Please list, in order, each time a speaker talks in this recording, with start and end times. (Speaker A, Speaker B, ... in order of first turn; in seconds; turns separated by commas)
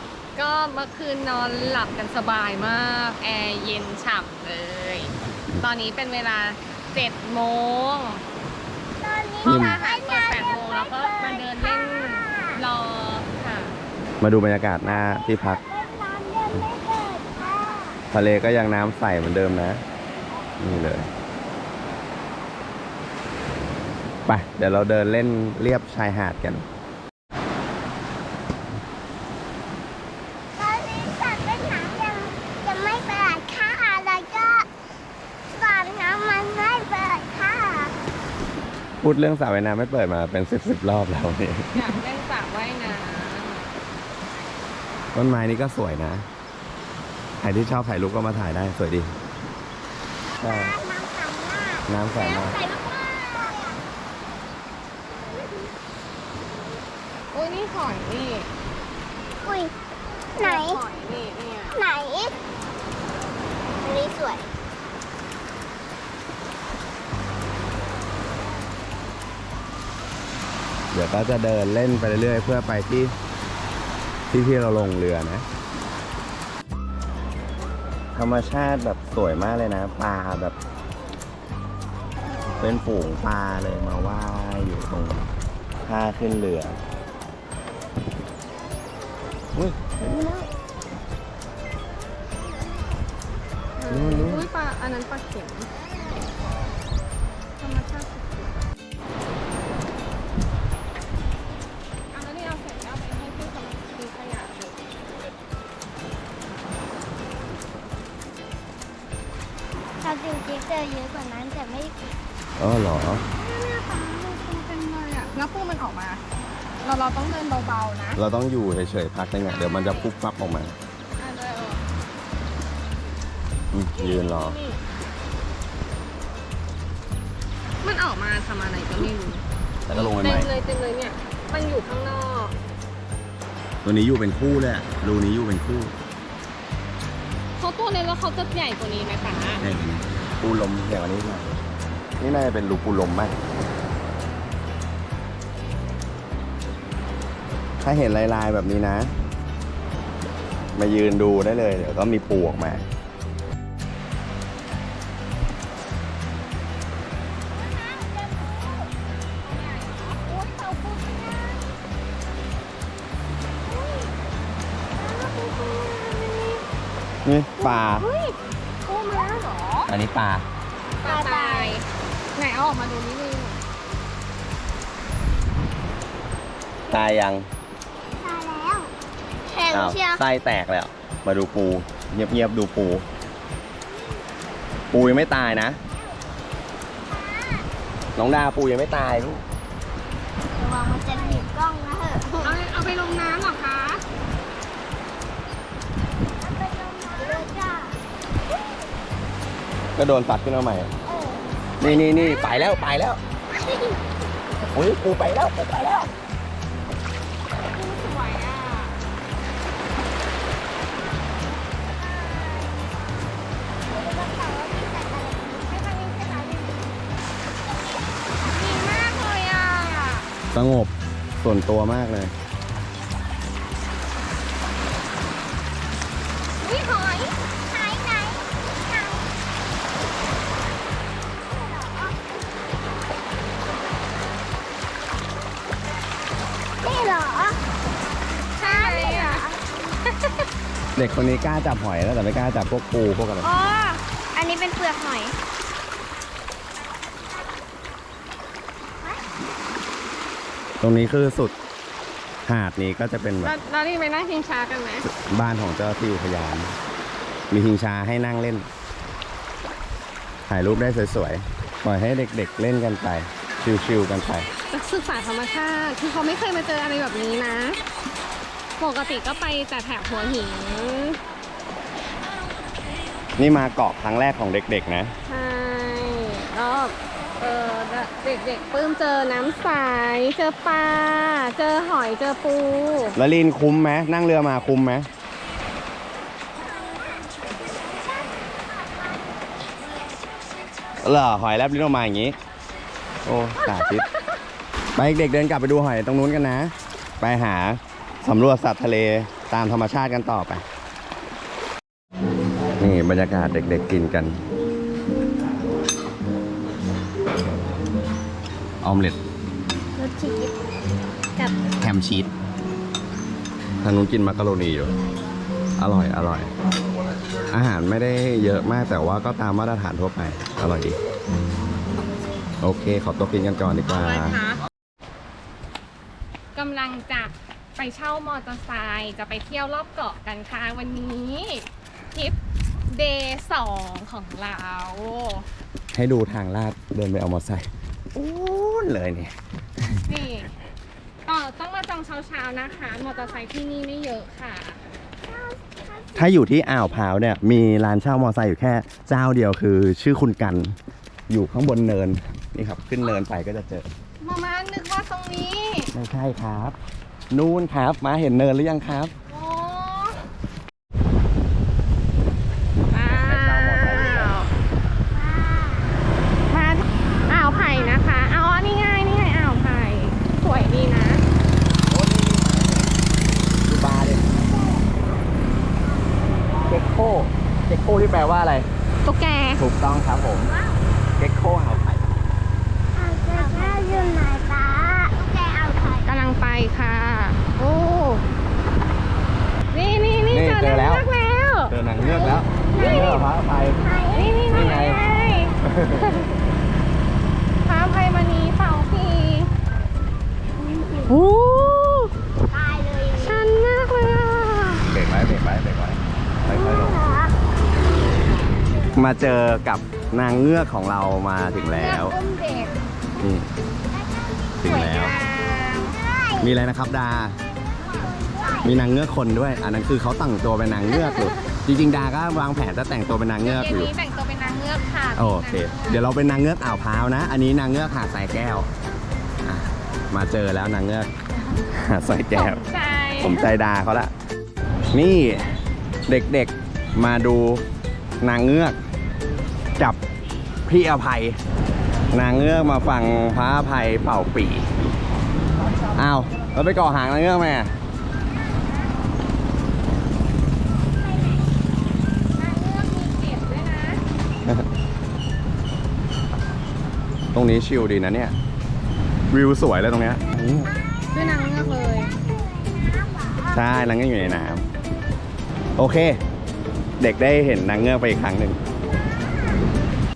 Speaker A: 0.3-8.2, Speaker B: 9.0-12.6, Speaker A: 9.4-13.8, Speaker C: 9.4-9.8, Speaker C: 14.2-15.6, Speaker B: 15.0-18.0, Speaker C: 18.1-19.8, Speaker C: 20.6-21.1, Speaker C: 24.3-26.7, Speaker B: 30.6-34.7, Speaker B: 35.5-37.9, Speaker C: 39.0-41.7, Speaker A: 41.7-43.7, Speaker C: 45.1-46.3, Speaker C: 47.4-49.1, Speaker B: 50.4-53.8, Speaker C: 50.4-50.8, Speaker C: 51.9-52.6, Speaker A: 57.3-58.5, Speaker B: 59.4-59.7, Speaker B: 60.4-60.8, Speaker A: 60.4-61.8, Speaker B: 61.7-62.4, Speaker B: 63.8-64.5, Speaker C: 70.9-73.1, Speaker C: 74.3-75.5, Speaker C: 78.2-80.5, Speaker C: 82.6-85.2, Speaker C: 85.8-86.8, Speaker C: 89.5-90.5, Speaker A: 93.8-95.7, Speaker C: 93.9-94.5, Speaker A: 97.6-98.6, Speaker A: 102.1-104.8, Speaker B: 110.0-112.0, Speaker C: 112.6-113.2, Speaker A: 113.4-116.2, Speaker A: 116.8-118.2, Speaker C: 118.2-120.8, Speaker A: 119.5-120.1, Speaker A: 121.2-121.8, Speaker C: 123.7-124.6, Speaker A: 124.0-124.8, Speaker A: 127.8-132.6, Speaker C: 129.9-130.5, Speaker C: 133.8-135.9, Speaker A: 137.6-139.6, Speaker C: 139.6-141.5, Speaker C: 142.2-143.3, Speaker C: 147.8-149.1, Speaker C: 150.8-152.8, Speaker A: 157.5-158.8, Speaker A: 159.4-161.6, Speaker A: 163.7-164.1, Speaker A: 164.9-166.6, Speaker C: 167.2-168.1, Speaker A: 167.6-169.9, Speaker C: 169.9-170.5, Speaker A: 171.0-173.6, Speaker B: 171.1-171.8, Speaker C: 176.9-177.5, Speaker B: 178.2-178.9, Speaker B: 179.5-180.2, Speaker C: 179.7-183.1, Speaker C: 184.9-185.8, Speaker B: 187.1-187.7, Speaker C: 188.2-189.4, Speaker B: 190.6-192.6, Speaker A: 192.4-194.0, Speaker B: 196.4-198.0, Speaker C: 200.0-200.9, Speaker B: 201.1-201.5, Speaker C: 201.8-203.2, Speaker A: 201.8-202.8, Speaker C: 204.7-206.1, Speaker A: 207.7-208.9, Speaker A: 212.2-212.7, Speaker A: 213.9-216.8, Speaker A: 218.5-220.3, Speaker C: 220.5-222.3, Speaker A: 226.6-227.4, Speaker B: 227.7-229.3, Speaker B: 231.5-232.2, Speaker B: 236.8-237.6, Speaker A: 238.6-239.5, Speaker B: 238.7-239.6, Speaker C: 241.0-243.5, Speaker B: 243.7-244.0, Speaker C: 250.8-251.5, Speaker C: 252.5-253.6, Speaker A: 253.4-255.1, Speaker C: 255.2-256.8, Speaker C: 257.5-258.7, Speaker C: 260.5-264.5, Speaker A: 264.7-267.8, Speaker A: 268.8-271.2, Speaker C: 273.4-275.1, Speaker A: 275.3-283.2, Speaker C: 283.2-285.1, Speaker C: 291.0-292.4, Speaker C: 293.2-294.1, Speaker C: 295.0-300.6, Speaker C: 302.8-304.4, Speaker C: 308.8-309.2, Speaker B: 310.0-310.5, Speaker C: 311.8-312.3, Speaker C: 313.8-314.9, Speaker C: 315.8-316.5, Speaker C: 317.5-321.0, Speaker C: 322.6-324.4, Speaker A: 323.9-324.6, Speaker A: 326.6-332.4, Speaker A: 332.9-335.5, Speaker C: 335.9-339.3, Speaker A: 340.1-340.5, Speaker A: 341.3-344.8, Speaker B: 345.3-346.1, Speaker C: 346.1-350.8, Speaker C: 351.3-353.9, Speaker A: 354.2-355.9, Speaker C: 355.9-356.8, Speaker C: 357.3-359.1, Speaker A: 359.3-360.2, Speaker A: 362.9-364.5, Speaker C: 363.1-364.4, Speaker B: 365.1-366.0, Speaker A: 366.5-371.2, Speaker C: 371.9-372.9, Speaker C: 373.6-374.2, Speaker B: 374.4-375.0, Speaker B: 376.3-376.8, Speaker C: 376.6-378.7, Speaker A: 379.0-379.6, Speaker C: 379.6-380.5, Speaker C: 381.2-382.1, Speaker B: 382.9-386.1, Speaker A: 386.1-388.2, Speaker A: 389.7-391.7, Speaker C: 390.3-391.1, Speaker C: 391.7-393.8, Speaker A: 392.7-393.2, Speaker B: 393.8-394.6, Speaker A: 394.1-395.6, Speaker C: 394.5-395.0, Speaker C: 395.6-396.3, Speaker A: 397.6-399.5, Speaker B: 400.6-401.1, Speaker A: 401.1-402.1, Speaker B: 402.5-403.4, Speaker A: 403.1-404.9, Speaker C: 404.9-407.0, Speaker B: 406.5-407.3, Speaker C: 408.9-412.2, Speaker A: 411.8-412.7, Speaker C: 413.2-413.5, Speaker B: 413.9-416.6, Speaker C: 414.6-415.1, Speaker A: 414.6-416.0, Speaker C: 416.4-417.4, Speaker B: 417.7-418.8, Speaker C: 418.6-423.9, Speaker A: 420.9-421.3, Speaker A: 423.4-426.0, Speaker C: 425.1-428.7, Speaker C: 429.4-431.1, Speaker C: 431.7-432.6, Speaker A: 432.3-433.5, Speaker C: 433.2-434.1, Speaker C: 434.9-435.4, Speaker C: 436.1-437.6, Speaker C: 438.2-438.8, Speaker C: 440.7-441.4, Speaker C: 442.1-444.7, Speaker C: 445.9-447.7, Speaker B: 451.1-451.6, Speaker A: 452.4-454.0, Speaker C: 457.3-458.4, Speaker C: 459.3-460.7, Speaker A: 461.1-462.1, Speaker B: 462.2-463.7, Speaker C: 463.5-464.6, Speaker C: 465.8-466.2, Speaker C: 467.0-468.6